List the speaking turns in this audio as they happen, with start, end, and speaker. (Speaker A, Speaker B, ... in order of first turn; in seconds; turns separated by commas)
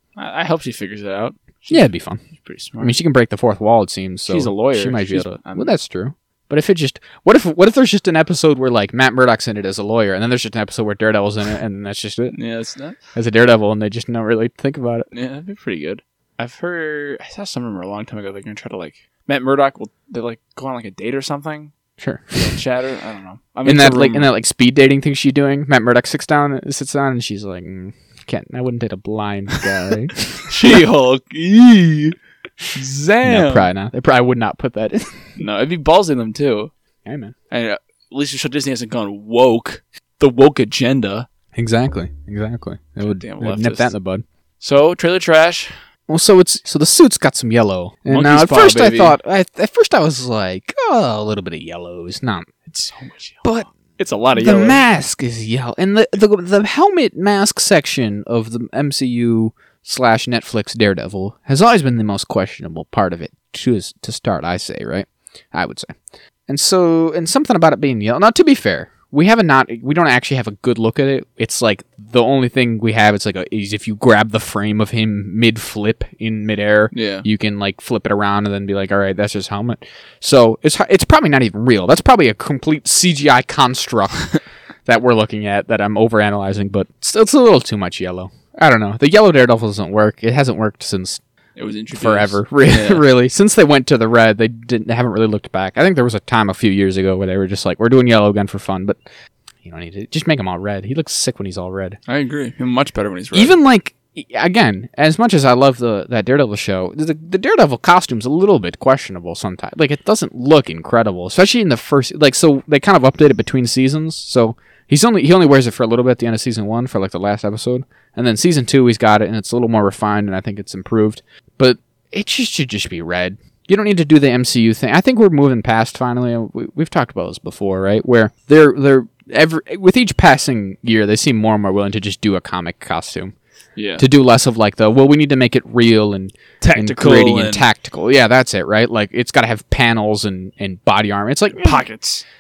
Speaker A: 0.2-2.9, Speaker B: 1.7-2.2, Speaker B: 2.8-12.4, Speaker A: 4.3-5.7, Speaker A: 12.3-13.0, Speaker B: 13.2-15.1, Speaker A: 15.1-21.7, Speaker B: 22.0-22.6, Speaker A: 22.4-24.3, Speaker B: 23.6-30.5, Speaker A: 30.5-32.2, Speaker A: 32.7-33.7, Speaker B: 33.2-35.4, Speaker A: 35.4-36.7, Speaker B: 37.0-37.4, Speaker A: 37.5-41.3, Speaker B: 41.5-44.2, Speaker A: 43.0-43.9, Speaker A: 44.6-45.7, Speaker B: 46.1-52.5, Speaker A: 48.1-49.2, Speaker A: 52.7-54.8, Speaker B: 54.4-66.0, Speaker B: 66.5-84.3, Speaker A: 76.9-77.3, Speaker B: 84.8-91.2, Speaker A: 91.6-93.0, Speaker B: 91.9-99.0, Speaker B: 99.6-102.0, Speaker A: 102.1-103.6, Speaker B: 103.3-133.3, Speaker A: 133.8-134.1, Speaker B: 134.0-141.8, Speaker A: 136.6-137.7, Speaker A: 141.6-142.2